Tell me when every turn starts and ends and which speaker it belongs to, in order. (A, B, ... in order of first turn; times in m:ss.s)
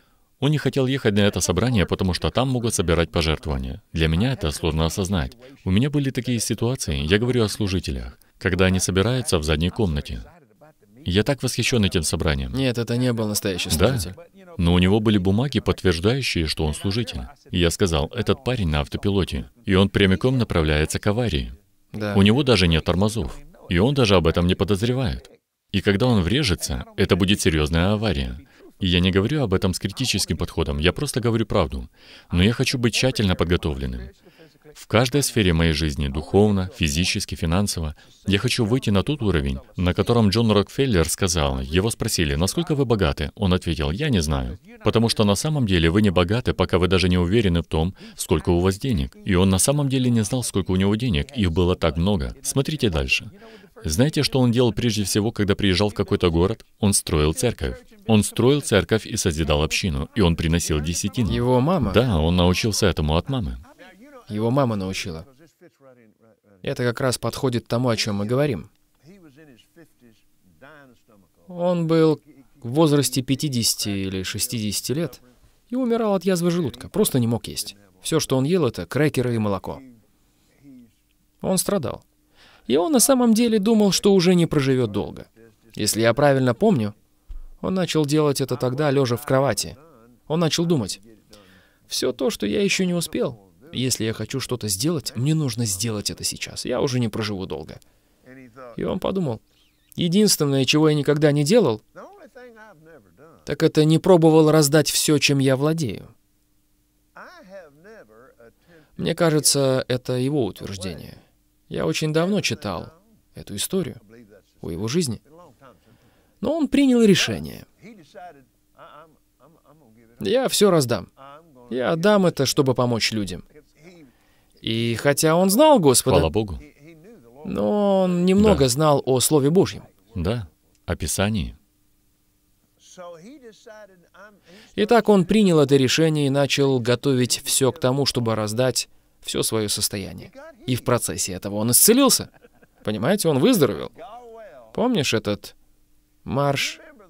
0:00.4-0:10.3 A
0:11.0-0:12.6 A
0:12.5-0:14.2 B
0:13.7-0:21.6 A
0:21.9-0:22.3 B
0:22.1-0:34.1 A
0:34.8-1:03.6 A
1:01.3-1:02.0 B
1:04.3-1:05.3 B
1:06.6-1:08.7 B
1:11.5-1:19.8 B
1:21.4-1:22.0 B
1:22.7-1:26.9 B
1:27.6-1:31.0 B
1:31.9-1:37.8 B
1:38.8-1:39.4 B
1:40.0-1:41.8 B
1:43.5-1:46.1 B
1:49.0-1:54.0 B
1:54.6-1:55.2 B
1:56.4-1:57.7 B
2:00.2-2:01.1 B
2:01.7-2:03.4 B
2:04.6-2:06.3 B
2:06.1-2:06.7 A
2:07.4-2:09.9 B
2:08.4-2:08.7 A
2:10.1-2:11.6 A
2:14.8-2:22.3 B
2:22.8-2:23.9 B
2:24.7-2:25.6 B
2:26.2-2:26.8 B